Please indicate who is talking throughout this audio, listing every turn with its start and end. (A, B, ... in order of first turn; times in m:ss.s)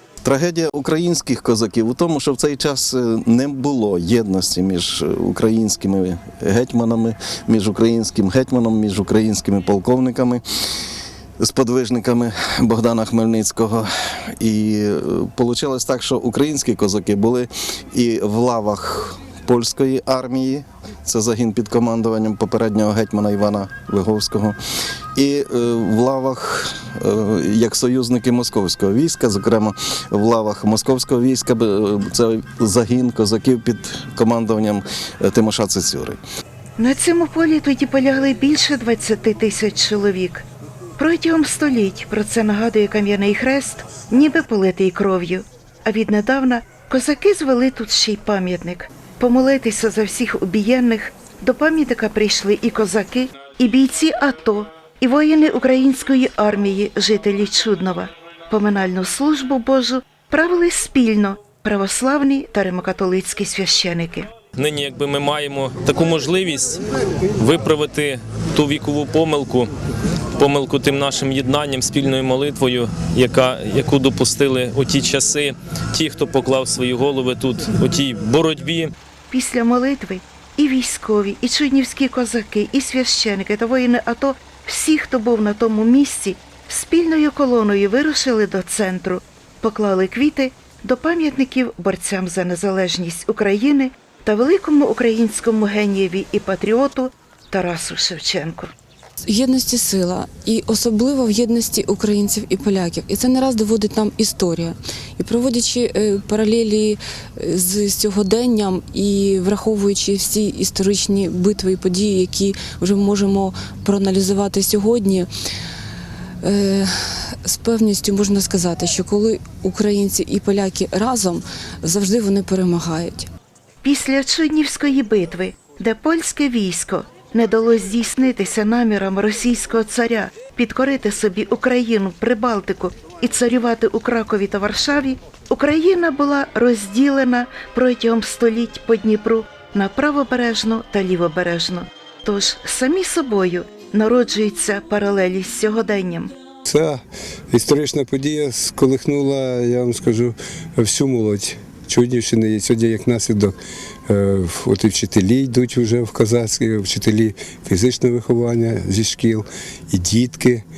0:00.2-0:10.4 A
0:11.4-0:24.6 A
0:25.1-0:36.2 A
0:36.8-0:40.4 B
0:41.0-1:04.3 B
1:04.6-1:06.8 C
1:07.4-1:09.7 C
1:10.4-1:18.9 C
1:19.3-1:38.7 B
1:39.3-1:55.3 D
1:56.4-2:03.3 D
2:03.8-2:26.3 B
2:26.6-2:33.5 E
2:34.1-2:40.6 E